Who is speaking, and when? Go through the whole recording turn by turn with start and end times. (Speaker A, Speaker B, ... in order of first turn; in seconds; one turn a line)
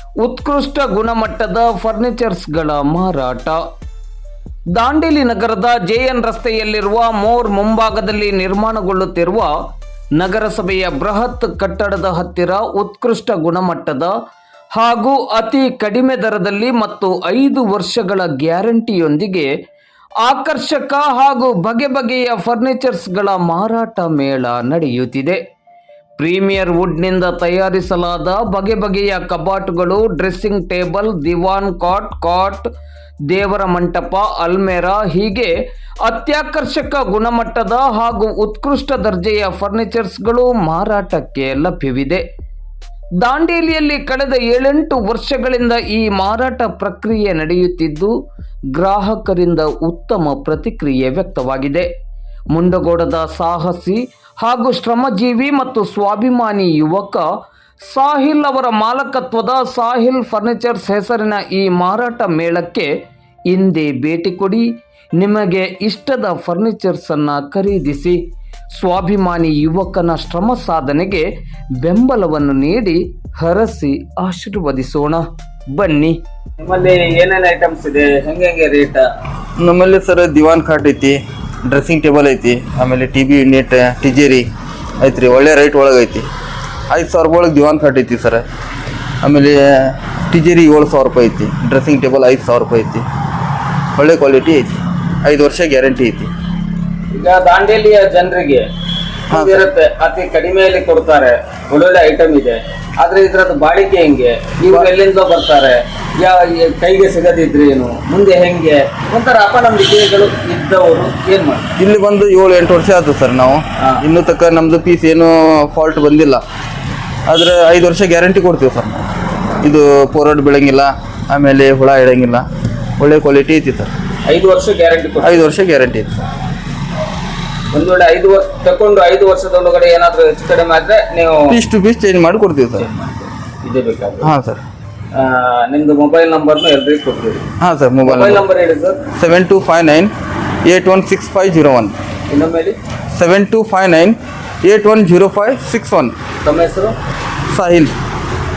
Speaker A: 0.2-3.6
Speaker A: 4.8-9.5
Speaker A: 10.2-14.1
Speaker A: 14.7-19.5
Speaker A: 20.2-25.4
Speaker A: 26.2-32.6
Speaker A: 33.3-35.5
Speaker A: 36.0-42.2
Speaker A: 43.2-48.1
Speaker A: 48.7-51.9
Speaker A: 52.5-57.2
Speaker A: 57.8-62.9
Speaker A: 63.5-68.2
Speaker A: 68.7-71.3
Speaker A: 71.8-76.2
Speaker B: 76.6-79.0
Speaker C: 79.6-84.5
Speaker C: 85.0-86.3
Speaker C: 86.9-88.5
Speaker C: 89.2-93.0
Speaker C: 94.0-96.3
Speaker B: 97.1-98.7
Speaker B: 99.3-111.7
Speaker C: 99.3-99.7
Speaker C: 111.8-116.4
Speaker B: 113.8-114.0
Speaker C: 117.3-119.0
Speaker C: 119.6-122.4
Speaker C: 123.0-123.9
Speaker B: 124.3-125.5
Speaker C: 125.2-126.2
Speaker B: 127.7-131.6
Speaker C: 131.5-132.9
Speaker B: 132.8-134.3
Speaker C: 134.2-134.6
Speaker B: 135.1-137.4
Speaker C: 137.6-138.4
Speaker B: 138.0-139.0
Speaker C: 139.1-140.1
Speaker C: 140.6-142.0
Speaker B: 142.3-142.8
Speaker C: 143.1-146.2
Speaker B: 146.4-146.9
Speaker C: 147.5-147.9